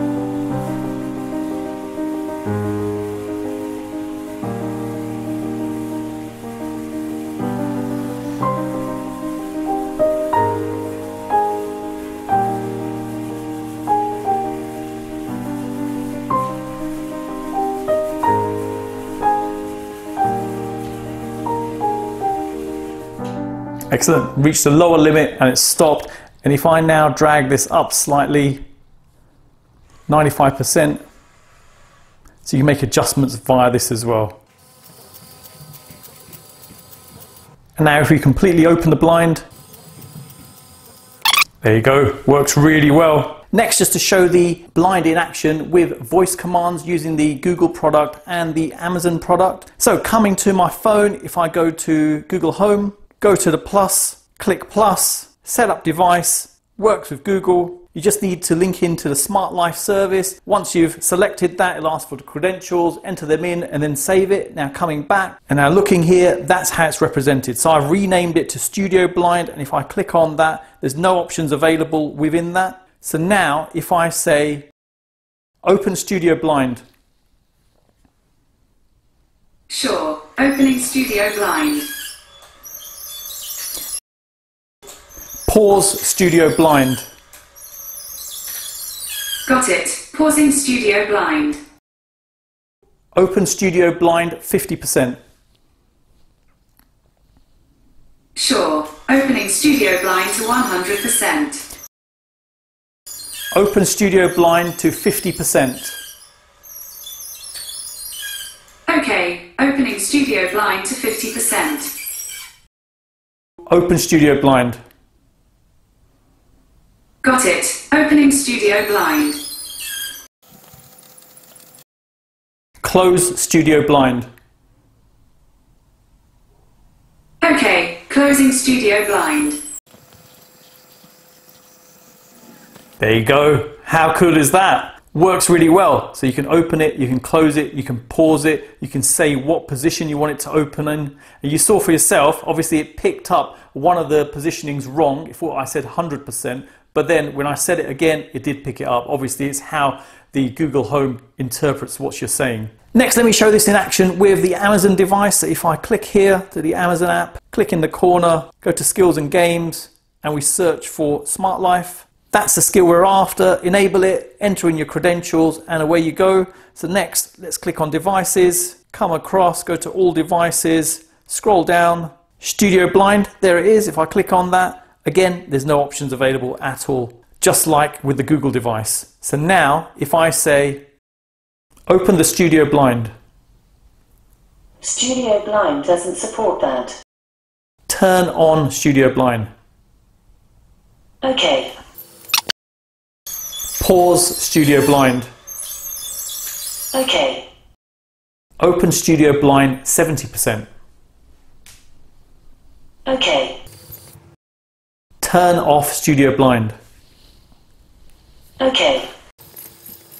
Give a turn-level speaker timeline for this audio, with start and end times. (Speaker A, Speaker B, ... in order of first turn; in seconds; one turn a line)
Speaker A: 23.9-28.6
Speaker A: 30.1-31.0
Speaker A: 32.4-34.4
Speaker A: 37.8-39.4
Speaker A: 41.6-74.7
Speaker A: 75.6-76.8
Speaker B: 79.7-81.8
Speaker A: 85.5-87.0
Speaker B: 89.5-91.6
Speaker A: 93.1-95.2
Speaker B: 98.3-101.7
Speaker A: 103.5-106.0
Speaker B: 108.9-111.9
Speaker A: 113.7-114.8
Speaker B: 117.2-119.4
Speaker A: 122.8-124.3
Speaker B: 127.4-129.6
Speaker A: 133.0-180.8
Speaker A: 181.9-183.1
Speaker C: 184.8-187.0
Speaker A: 187.9-189.5
Speaker C: 191.2-191.8
Speaker A: 193.8-195.3
Speaker C: 196.9-197.5
Speaker A: 198.6-200.7
Speaker C: 203.1-203.6
Speaker A: 205.2-206.8
Speaker C: 208.6-209.1